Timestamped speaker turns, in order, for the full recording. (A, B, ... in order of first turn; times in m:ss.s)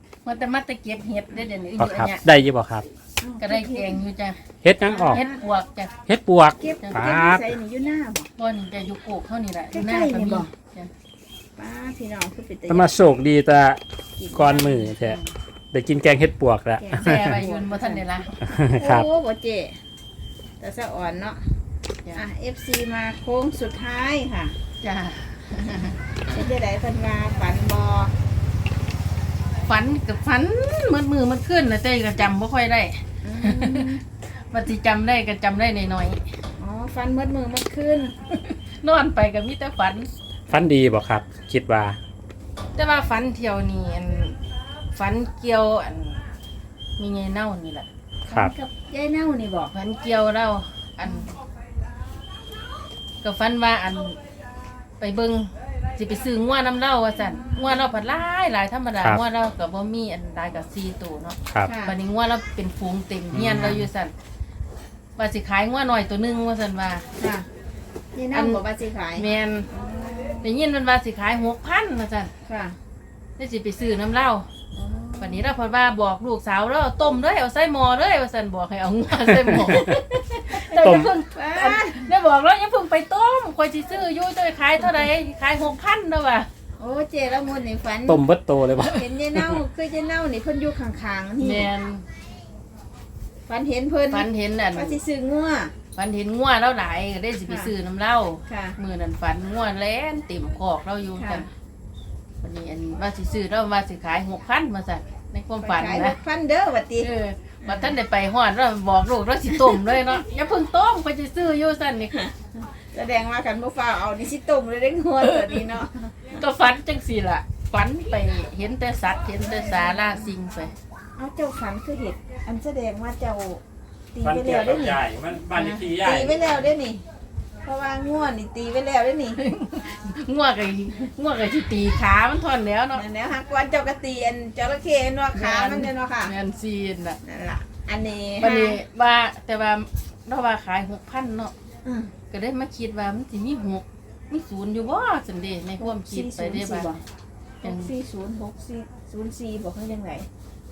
0:00.2-0:02.2 A
0:01.8-0:02.9 B
0:03.2-0:04.0 C
0:03.4-0:04.4 A
0:04.6-0:05.2 B
0:04.9-0:05.4 C
0:05.1-0:05.9 A
0:06.1-0:07.5 B
0:06.6-0:08.3 C
0:06.8-0:07.1 A
0:08.4-0:10.9 A
0:09.7-0:10.5 C
0:11.6-0:13.0 C
0:12.7-0:13.8 B
0:14.2-0:15.0 C
0:14.3-0:15.2 B
0:15.7-0:17.4 B
0:16.8-0:18.1 C
0:17.0-0:18.4 A
0:18.4-0:19.1 B
0:18.6-0:19.8 C
0:20.6-0:21.4 C
0:22.1-0:24.6 C
0:24.8-0:25.9 A
0:25.6-0:28.1 C
0:29.6-0:36.2 A
0:33.2-0:34.0 C
0:36.6-0:38.2 C
0:38.3-0:40.1 A
0:40.5-0:42.0 B
0:42.8-0:44.4 A
0:44.9-0:46.2 A
0:47.0-0:47.9 A
0:48.3-0:49.7 C
0:49.7-0:51.3 A
0:51.0-0:51.3 C
0:53.2-0:54.2 A
0:55.0-1:04.1 A
1:01.6-1:02.0 C
1:03.3-1:03.9 B
1:05.2-1:07.0 A
1:07.2-1:07.5 C
1:08.2-1:10.5 C
1:08.3-1:08.6 A
1:09.2-1:09.7 A
1:10.4-1:12.3 A
1:12.5-1:12.8 C
1:13.4-1:14.5 A
1:14.8-1:15.5 C
1:15.2-1:26.5 A
1:19.5-1:19.8 B
1:20.7-1:21.1 B
1:21.3-1:22.1 C
1:26.8-1:28.2 C
1:28.1-1:29.6 B
1:28.8-1:31.7 C
1:31.4-1:32.0 A
1:33.5-1:35.7 C
1:34.1-1:35.0 A
1:36.0-1:41.5 A
1:38.5-1:38.8 C
1:41.2-1:41.5 C
1:42.4-1:46.2 A
1:45.6-1:47.1 C
1:47.0-1:52.2 A
1:47.6-1:47.9 C
1:49.6-1:49.8 C
1:52.2-1:56.2 C
1:56.3-2:00.7 A
1:59.4-2:00.3 C
2:01.2-2:03.6 C
2:04.1-2:05.0 C
2:04.2-2:06.4 B
2:05.7-2:07.0 C
2:07.6-2:09.4 C
2:09.4-2:13.0 A
2:12.9-2:16.3 C
2:15.3-2:17.2 A
2:17.2-2:18.8 C
2:18.4-2:21.5 A
2:21.8-2:22.1 C
2:22.3-2:27.0 A
2:25.8-2:27.0 C
2:27.6-2:30.3 C
2:27.6-2:27.9 A